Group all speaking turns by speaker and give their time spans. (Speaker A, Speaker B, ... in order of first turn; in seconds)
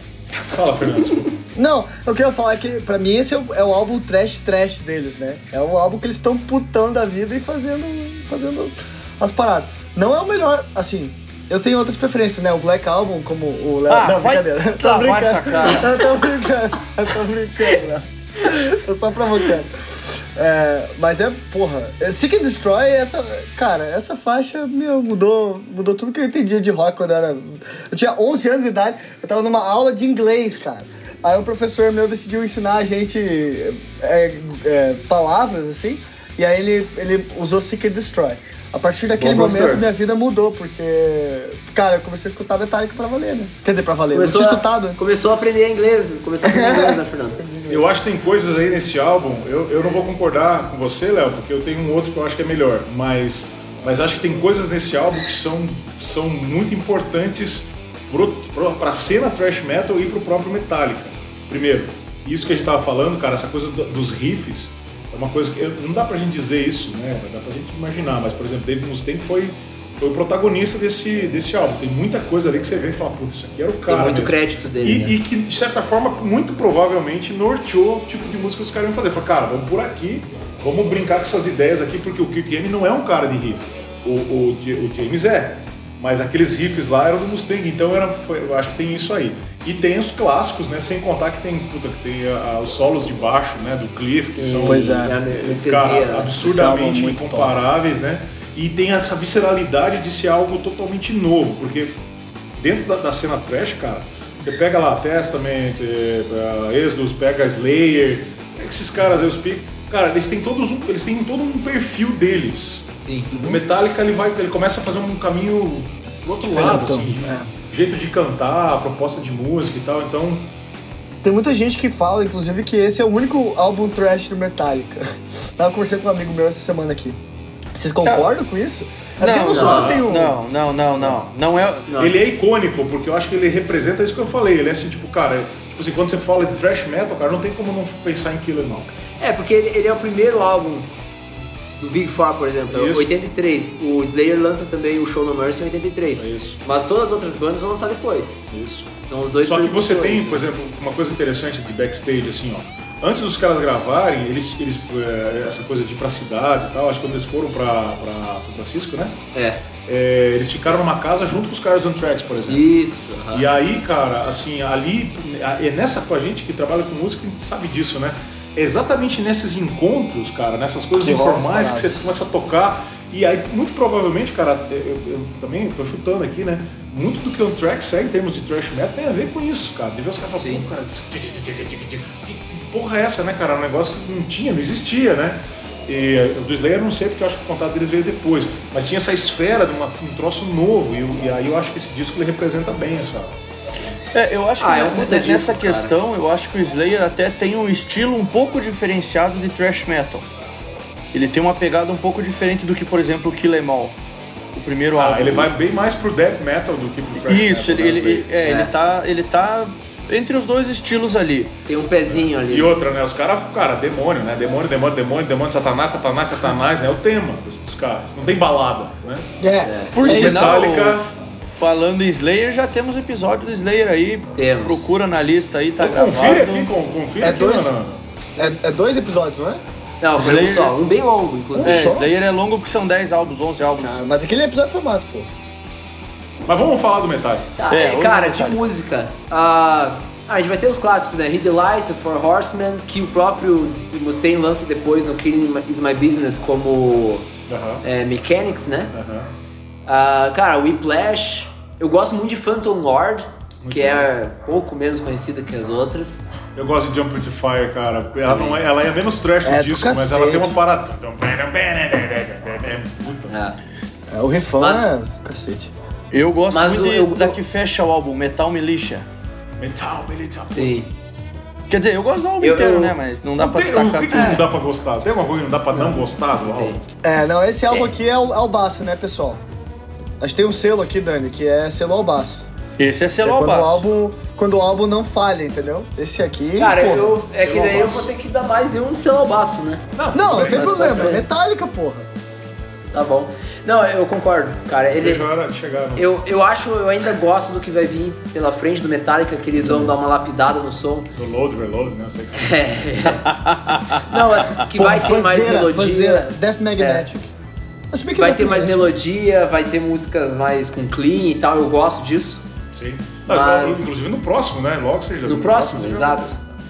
Speaker A: 0.4-1.4, 47.7-102.0, 102.6-120.5, 129.6-130.0, 132.0-138.9, 142.7-143.1, 146.2-146.6, 148.5-148.9, 149.4-159.2, 159.9-162.7, 163.3-193.3, 205.0-208.3, 212.1-219.3, 220.1-221.1, 225.8-228.0, 236.5-237.5, 247.5-247.8, 248.9-249.3, 253.6-254.1, 256.6-263.3, 269.6-270.8, 273.4-276.8, 287.3-288.1, 290.0-291.2, 294.9-296.2, 301.1-302.6, 312.7-316.5
Speaker B: 1.6-45.0, 46.4-47.9, 94.6-95.2, 96.4-97.6, 113.3-113.6, 116.4-117.5, 121.2-127.2, 127.8-130.4, 171.0-172.0, 219.4-220.5, 227.2-227.8, 228.4-229.6, 231.6-232.1, 233.8-235.3, 259.4-260.6, 264.1-265.7, 277.0-279.4, 280.2-282.4, 283.2-287.2, 290.1-292.1, 299.6-299.9, 304.7-307.3, 307.9-309.0
Speaker C: 13.9-16.0, 128.1-128.3, 129.2-131.9, 194.1-200.2, 201.1-204.0, 204.5-205.6, 207.2-211.5, 219.9-226.7, 230.2-230.8, 231.6-234.0, 237.7-238.7, 266.1-269.1, 271.7-274.4, 282.8-283.8, 303.3-304.0
Speaker D: 39.2-39.9, 44.1-47.4, 73.9-75.2, 94.4-96.3, 113.0-113.3, 129.5-130.0, 131.9-132.2, 139.2-140.9, 141.8-148.4, 149.1-150.5, 159.3-159.6, 162.5-163.5, 180.4-180.7, 194.6-195.9, 208.4-208.7, 211.7-212.7, 219.6-220.4, 224.3-225.0, 230.0-232.0, 237.6-247.3, 247.8-248.9, 249.9-256.2, 258.3-258.6, 263.3-263.6, 264.6-264.9, 266.5-267.4, 270.5-270.9, 272.4-272.9, 274.1-274.4, 275.7-276.8, 286.6-291.2, 292.9-295.2, 296.0-301.1, 302.4-303.3, 303.9-307.1, 308.2-312.4, 313.3-314.0, 315.2-316.4